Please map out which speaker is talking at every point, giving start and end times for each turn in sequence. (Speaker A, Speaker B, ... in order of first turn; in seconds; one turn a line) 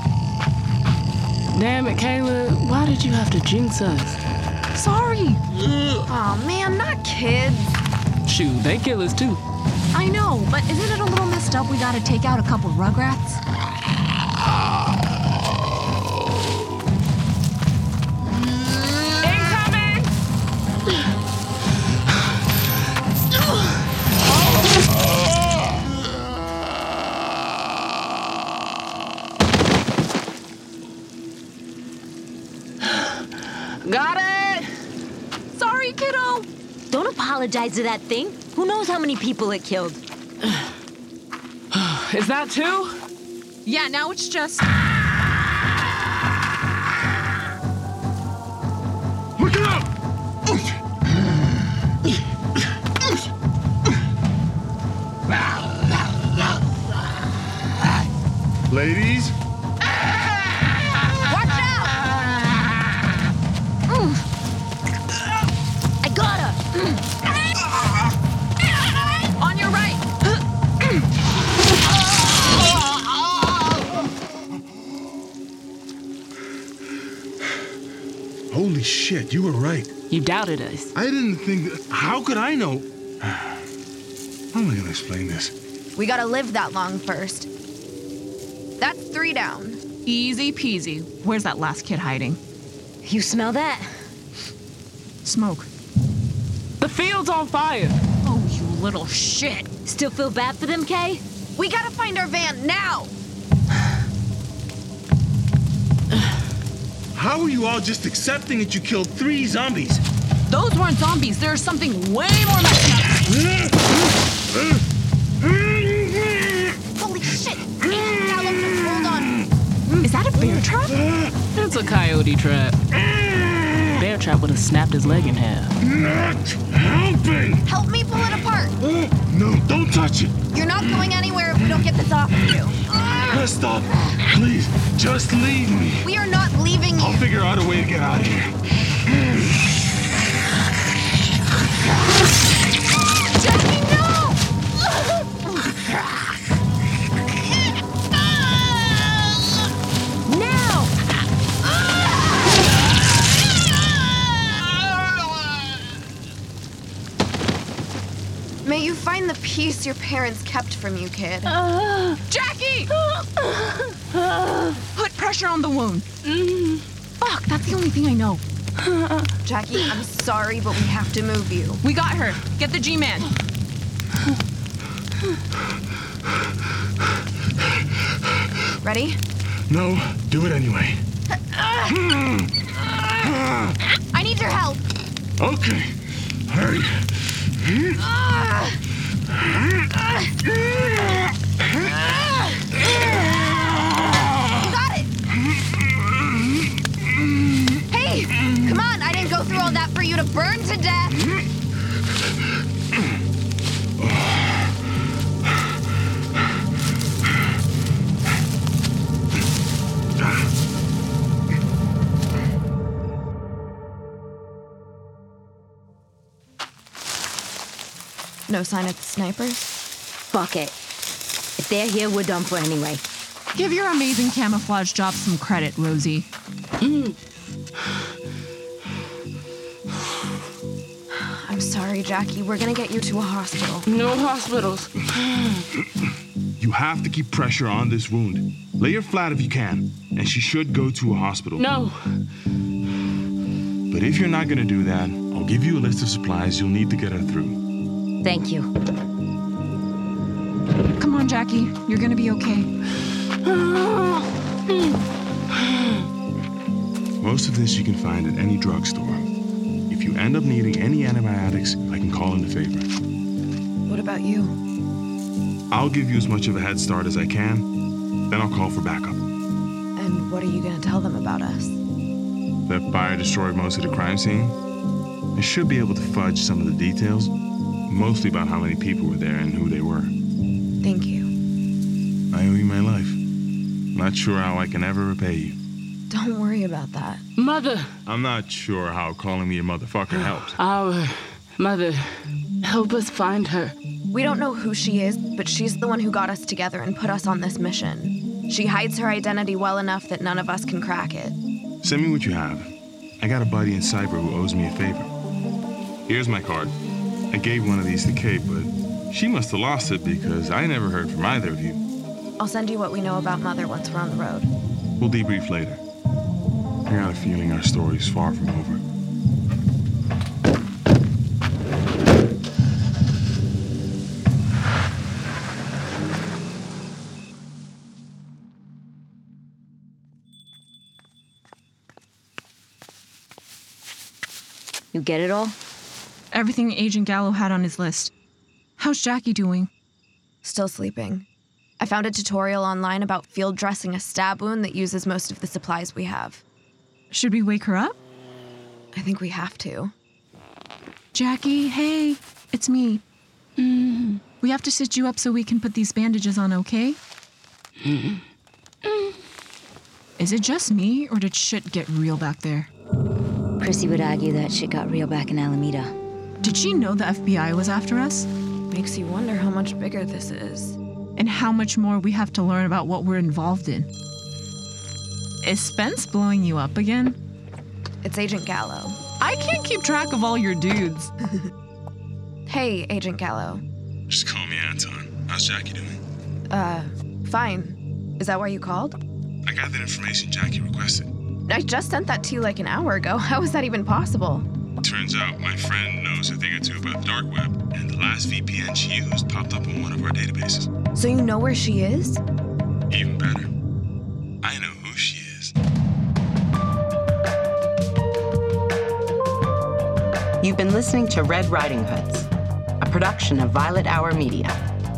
Speaker A: 1.5-4.2
Speaker B: 4.7-5.4
Speaker C: 6.1-7.8
Speaker A: 8.2-9.4
Speaker B: 9.9-13.4
Speaker A: 19.2-20.1
Speaker A: 33.8-34.7
Speaker B: 35.5-36.5
Speaker D: 36.9-40.0
Speaker A: 41.7-42.9
Speaker B: 43.6-44.7
Speaker E: 49.4-49.9
Speaker E: 58.7-59.3
Speaker C: 61.4-61.9
Speaker B: 63.9-64.2
Speaker D: 66.0-66.7
Speaker B: 69.4-70.1
Speaker E: 78.5-79.9
Speaker A: 80.1-80.9
Speaker E: 81.0-83.6
Speaker E: 84.5-85.5
Speaker C: 86.0-87.5
Speaker C: 88.8-89.8
Speaker B: 90.1-92.4
Speaker D: 93.0-93.9
Speaker B: 95.2-95.7
Speaker A: 96.8-98.0
Speaker B: 98.2-99.7
Speaker D: 99.8-101.2
Speaker C: 101.6-103.1
Speaker E: 107.1-110.0
Speaker B: 110.5-113.2
Speaker E: 113.4-113.7
Speaker E: 115.6-116.3
Speaker C: 117.0-120.1
Speaker B: 117.1-117.4
Speaker B: 120.0-121.0
Speaker A: 121.5-122.8
Speaker E: 123.5-123.8
Speaker A: 124.0-125.7
Speaker E: 125.8-127.7
Speaker C: 127.7-128.8
Speaker E: 128.9-130.3
Speaker C: 130.5-132.8
Speaker E: 132.9-136.1
Speaker C: 136.0-137.2
Speaker E: 137.0-138.6
Speaker B: 143.6-144.1
Speaker D: 150.3-150.9
Speaker C: 158.6-161.5
Speaker A: 161.5-162.2
Speaker B: 162.3-162.9
Speaker A: 163.0-164.7
Speaker B: 164.9-166.1
Speaker A: 166.3-166.8
Speaker B: 167.2-168.4
Speaker A: 168.8-169.2
Speaker C: 169.4-171.8
Speaker B: 171.8-173.3
Speaker C: 178.8-179.2
Speaker E: 179.7-181.0
Speaker E: 181.9-182.5
Speaker E: 183.1-183.8
Speaker C: 184.1-184.8
Speaker E: 185.4-188.0
Speaker C: 188.0-188.8
Speaker C: 194.6-195.1
Speaker C: 197.9-201.2
Speaker E: 204.0-204.4
Speaker C: 218.5-219.7
Speaker D: 220.3-220.8
Speaker D: 221.6-223.0
Speaker B: 223.5-226.3
Speaker A: 226.8-227.2
Speaker C: 231.1-233.9
Speaker A: 233.9-235.6
Speaker E: 236.6-241.6
Speaker A: 241.6-242.1
Speaker E: 243.9-247.6
Speaker D: 248.2-248.7
Speaker B: 251.0-252.7
Speaker A: 253.5-254.9
Speaker E: 257.2-259.3
Speaker E: 259.9-262.9
Speaker C: 263.9-264.6
Speaker E: 265.7-267.7
Speaker E: 268.3-269.2
Speaker C: 269.9-271.8
Speaker E: 272.7-274.6
Speaker E: 275.4-277.3
Speaker E: 277.9-280.1
Speaker C: 280.8-281.3
Speaker E: 282.3-283.2
Speaker E: 283.9-285.6
Speaker C: 286.1-287.2
Speaker A: 287.4-287.9
Speaker E: 288.1-290.6
Speaker A: 290.6-293.8
Speaker C: 294.1-301.4
Speaker E: 301.8-302.7
Speaker E: 303.2-305.1
Speaker E: 306.1-306.7
Speaker E: 307.3-311.8
Speaker C: 312.4-314.5
Speaker E: 315.0-315.8
Speaker E: 316.9-318.8
Speaker D: 334.9-335.6
Speaker B: 336.3-338.1
Speaker B: 338.8-339.7
Speaker C: 340.4-341.3
Speaker C: 341.8-346.4
Speaker B: 347.1-348.0
Speaker C: 348.9-349.9
Speaker B: 351.1-353.0
Speaker A: 353.6-354.2
Speaker B: 354.4-357.0
Speaker A: 357.8-358.2
Speaker B: 360.2-362.7
Speaker D: 363.6-365.9
Speaker B: 366.4-368.3
Speaker C: 368.7-370.8
Speaker B: 371.1-373.9
Speaker B: 375.4-377.2
Speaker C: 378.0-379.0
Speaker B: 379.2-381.1
Speaker C: 382.5-383.6
Speaker E: 384.1-386.0
Speaker C: 386.5-389.0
Speaker E: 389.4-391.1
Speaker C: 391.5-394.5
Speaker E: 394.8-400.7
Speaker C: 400.9-402.2
Speaker E: 402.9-403.5
Speaker E: 404.4-405.5
Speaker F: 410.4-414.6